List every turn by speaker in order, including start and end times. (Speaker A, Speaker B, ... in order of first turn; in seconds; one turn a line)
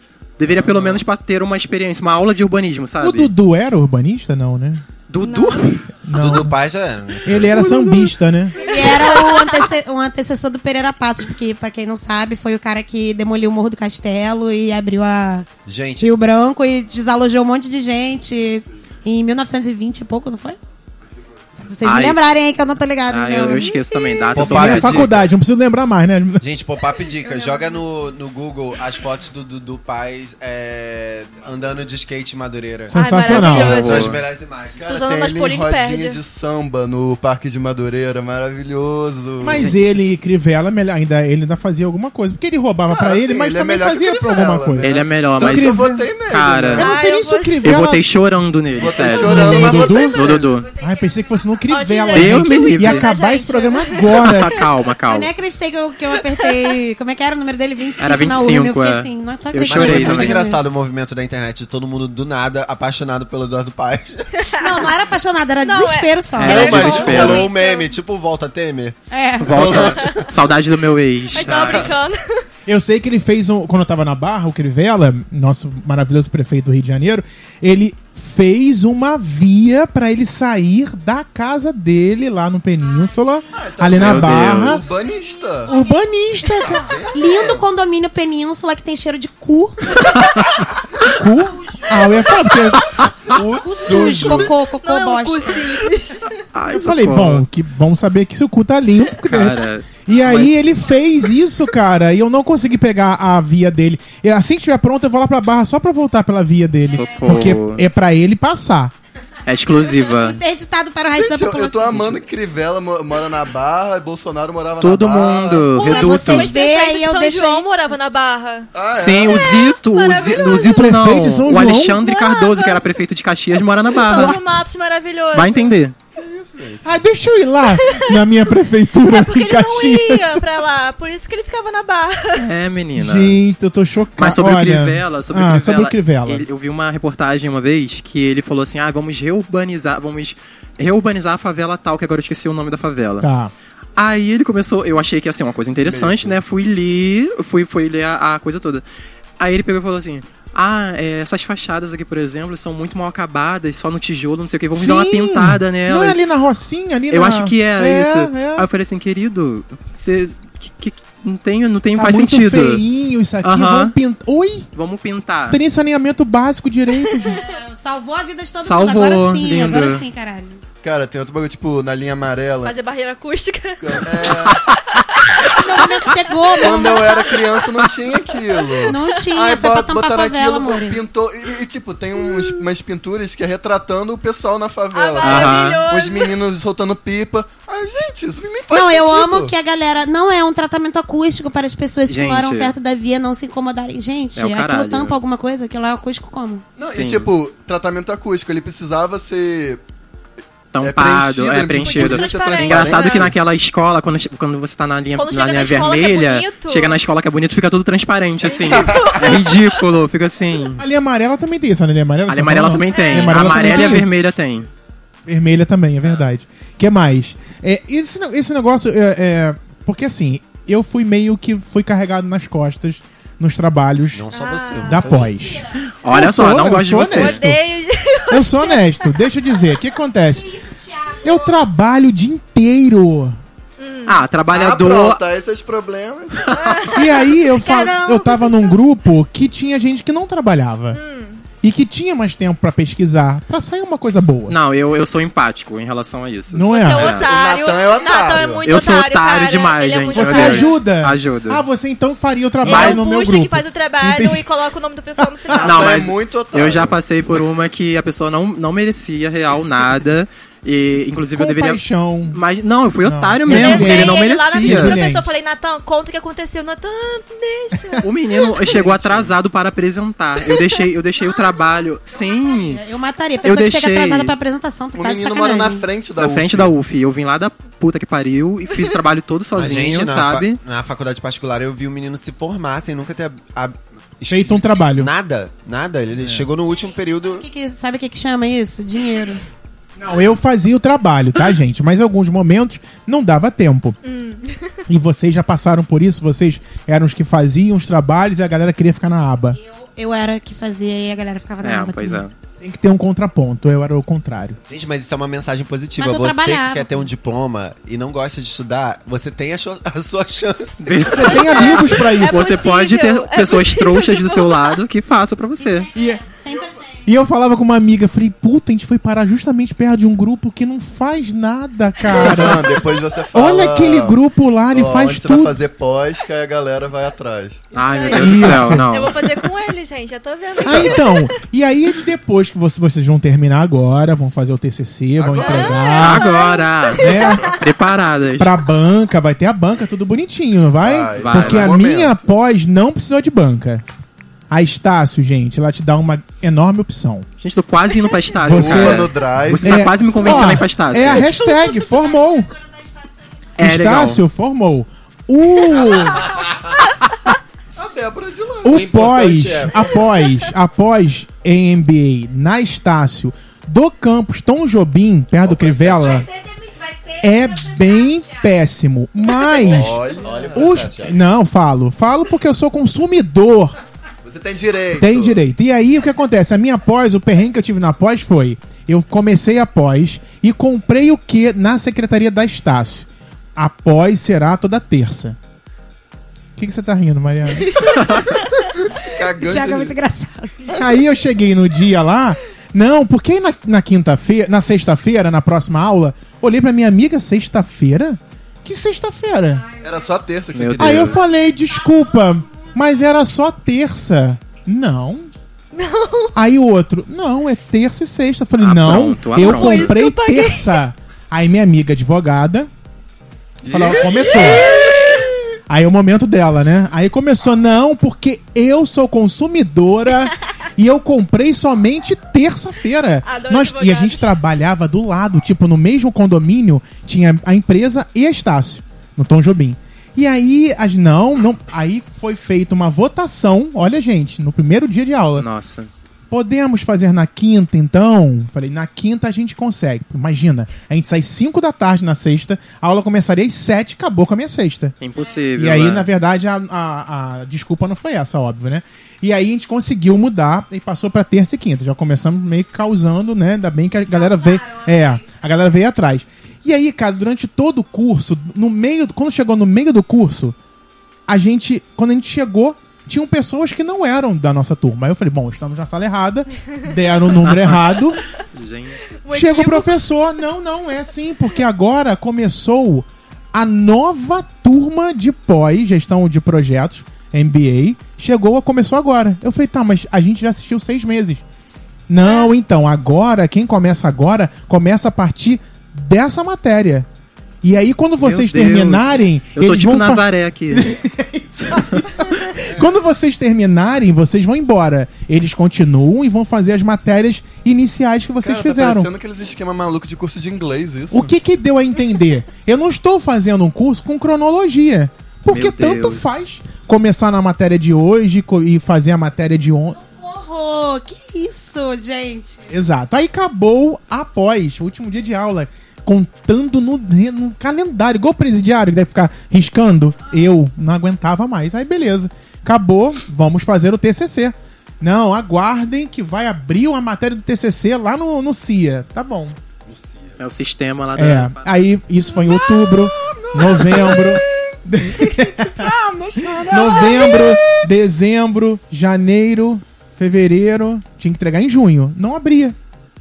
Speaker A: 0.4-3.3
Speaker B: 0.5-0.9
Speaker C: 3.0-4.8
Speaker A: 5.1-5.9
Speaker D: 5.2-5.8
Speaker C: 6.0-6.6
Speaker B: 6.1-7.7
Speaker C: 7.2-8.6
Speaker E: 7.5-8.1
Speaker D: 8.6-9.7
Speaker E: 8.6-15.5
Speaker B: 15.7-16.1
Speaker E: 16.0-20.6
Speaker E: 21.6-23.8
Speaker A: 21.8-22.2
Speaker A: 23.1-25.1
Speaker D: 23.9-24.4
Speaker B: 24.4-25.3
Speaker C: 24.4-26.4
Speaker B: 26.4-35.0
Speaker D: 27.2-27.8
Speaker C: 32.9-34.0
Speaker D: 33.0-34.1
Speaker F: 33.3-34.2
Speaker A: 33.8-34.1
Speaker F: 34.8-39.7
Speaker D: 34.9-36.2
Speaker C: 39.4-44.9
Speaker F: 42.9-46.9
Speaker A: 44.8-46.9
Speaker C: 45.4-46.0
Speaker C: 46.8-48.0
Speaker D: 46.8-47.8
Speaker A: 47.6-50.7
Speaker F: 48.8-50.5
Speaker C: 49.1-54.6
Speaker D: 51.7-54.6
Speaker A: 52.1-53.1
Speaker A: 54.1-55.3
Speaker E: 55.1-60.7
Speaker D: 56.2-56.8
Speaker A: 58.0-60.5
Speaker B: 59.7-64.3
Speaker D: 64.4-64.9
Speaker E: 64.6-67.0
Speaker D: 65.6-67.9
Speaker A: 66.4-67.5
Speaker B: 66.4-69.0
Speaker E: 69.1-69.9
Speaker A: 69.4-71.9
Speaker B: 69.5-70.2
Speaker D: 69.8-70.3
Speaker D: 71.3-72.4
Speaker B: 71.4-71.9
Speaker C: 72.7-85.0
Speaker F: 83.5-85.7
Speaker A: 84.0-84.9
Speaker C: 85.7-86.9
Speaker F: 86.6-87.6
Speaker E: 87.1-90.0
Speaker C: 91.0-92.9
Speaker F: 93.3-94.6
Speaker E: 93.5-95.8
Speaker D: 94.8-96.3
Speaker A: 96.5-97.4
Speaker C: 96.7-108.9
Speaker A: 99.3-99.9
Speaker A: 106.8-107.8
Speaker E: 106.9-107.4
Speaker A: 109.5-110.4
Speaker E: 110.0-112.2
Speaker F: 111.2-115.8
Speaker A: 114.8-116.5
Speaker D: 115.8-120.9
Speaker E: 115.8-117.7
Speaker F: 118.7-119.7
Speaker A: 118.9-124.4
Speaker C: 120.6-122.1
Speaker D: 122.0-122.8
Speaker D: 123.9-125.8
Speaker A: 125.3-126.0
Speaker F: 126.2-127.0
Speaker C: 126.8-130.4
Speaker D: 127.8-128.2
Speaker D: 129.0-132.5
Speaker A: 132.4-133.4
Speaker C: 133.0-136.5
Speaker A: 134.2-143.3
Speaker C: 143.2-143.5
Speaker A: 144.0-148.8
Speaker F: 145.8-146.4
Speaker A: 149.4-156.2
Speaker C: 154.7-158.7
Speaker A: 157.1-162.8
Speaker C: 161.9-164.7
Speaker A: 163.4-163.9
Speaker A: 164.8-165.6
Speaker C: 165.5-167.4
Speaker D: 167.1-167.4
Speaker E: 167.3-170.6
Speaker A: 168.6-170.0
Speaker F: 170.8-172.8
Speaker D: 172.6-175.5
Speaker F: 173.8-174.6
Speaker E: 175.5-177.4
Speaker D: 176.5-177.6
Speaker F: 176.6-189.5
Speaker D: 178.7-179.3
Speaker E: 178.9-181.0
Speaker D: 182.2-182.6
Speaker D: 184.9-186.4
Speaker A: 185.2-185.8
Speaker E: 188.7-196.7
Speaker A: 192.1-192.7
Speaker A: 194.4-195.2
Speaker F: 196.8-199.8
Speaker A: 196.8-197.3
Speaker A: 200.7-210.8
Speaker F: 200.8-203.3
Speaker D: 201.8-203.3
Speaker D: 205.2-207.0
Speaker D: 208.4-209.8
Speaker C: 210.8-214.2
Speaker A: 212.3-214.7
Speaker D: 212.8-213.9
Speaker C: 215.3-224.3
Speaker B: 224.1-225.6
Speaker D: 224.4-225.0
Speaker C: 224.8-227.6
Speaker A: 225.8-227.4
Speaker D: 227.1-228.9
Speaker C: 228.3-230.6
Speaker E: 230.6-231.2
Speaker C: 231.2-233.4
Speaker D: 233.8-234.2
Speaker A: 234.1-235.2
Speaker F: 234.5-236.5
Speaker A: 236.4-236.9
Speaker D: 236.6-238.8
Speaker C: 236.9-241.0
Speaker D: 240.9-241.4
Speaker C: 241.6-244.6
Speaker A: 244.5-247.3
Speaker C: 246.5-247.2
Speaker D: 246.7-250.8
Speaker F: 247.1-248.7
Speaker A: 248.6-251.6
Speaker C: 250.1-254.5
Speaker A: 252.6-253.0
Speaker D: 252.6-255.9
Speaker C: 255.2-255.5
Speaker F: 255.5-257.0
Speaker A: 255.6-265.0
Speaker C: 261.4-262.4
Speaker C: 263.0-265.3
Speaker D: 263.5-268.8
Speaker A: 268.0-272.8
Speaker F: 268.9-269.3
Speaker D: 270.4-270.8
Speaker E: 272.5-275.9
Speaker A: 273.4-274.4
Speaker F: 274.9-276.7
Speaker A: 276.2-280.6
Speaker B: 279.5-287.4
Speaker C: 284.3-285.1
Speaker C: 286.1-286.5
Speaker E: 287.3-289.4
Speaker C: 290.0-294.0
Speaker D: 294.0-294.8
Speaker C: 294.9-299.6
Speaker E: 299.7-302.2
Speaker A: 301.6-302.3
Speaker C: 302.6-304.6
Speaker B: 304.7-311.4
Speaker E: 306.0-307.1
Speaker A: 310.8-315.9
Speaker C: 311.1-312.5
Speaker D: 311.6-314.8
Speaker E: 315.6-316.9
Speaker C: 315.9-316.2
Speaker C: 317.1-322.8
Speaker F: 322.1-324.2
Speaker C: 323.3-325.6
Speaker F: 324.7-327.6
Speaker A: 327.7-329.2
Speaker D: 327.8-331.3
Speaker C: 328.1-328.9
Speaker C: 330.6-336.4
Speaker F: 330.7-330.9
Speaker F: 335.2-336.0
Speaker D: 335.4-337.6
Speaker A: 336.0-338.5
Speaker C: 337.0-337.5
Speaker C: 338.4-343.8
Speaker F: 340.8-342.2
Speaker A: 341.2-341.8
Speaker C: 344.5-347.3
Speaker A: 347.4-351.3
Speaker F: 348.4-350.3
Speaker C: 348.5-349.1
Speaker C: 349.6-352.5
Speaker D: 351.2-351.7
Speaker E: 352.5-353.1
Speaker A: 353.6-354.2
Speaker C: 353.6-356.3
Speaker F: 357.8-358.8
Speaker C: 358.6-366.3
Speaker B: 358.6-360.0
Speaker B: 365.4-366.3
Speaker C: 367.2-373.8
Speaker F: 369.6-370.9
Speaker B: 369.6-371.1
Speaker F: 374.2-375.4
Speaker C: 375.0-385.4
Speaker C: 386.6-387.7
Speaker F: 388.0-389.9
Speaker E: 389.1-390.7
Speaker C: 390.7-399.7
Speaker F: 399.8-401.4
Speaker A: 400.5-401.3
Speaker C: 400.8-405.3
Speaker D: 405.7-406.3
Speaker C: 406.3-412.7
Speaker A: 408.6-410.0
Speaker D: 409.4-410.8
Speaker F: 413.6-415.3
Speaker C: 413.6-414.8
Speaker C: 415.7-435.5
Speaker D: 423.2-424.3
Speaker A: 435.4-435.9
Speaker C: 436.3-444.9
Speaker A: 445.0-446.1
Speaker C: 445.6-460.6
Speaker C: 461.3-468.2
Speaker A: 467.5-467.8
Speaker A: 468.5-469.1
Speaker D: 469.2-470.0
Speaker C: 469.3-481.4
Speaker C: 482.1-487.1
Speaker C: 487.6-499.1
Speaker A: 488.2-490.9
Speaker A: 491.8-492.1
Speaker F: 498.4-501.3
Speaker C: 501.1-510.0
Speaker A: 505.5-506.5
Speaker E: 510.0-512.6
Speaker C: 512.7-529.6
Speaker A: 530.4-531.7
Speaker C: 531.1-542.8
Speaker F: 532.4-534.4
Speaker F: 535.3-537.9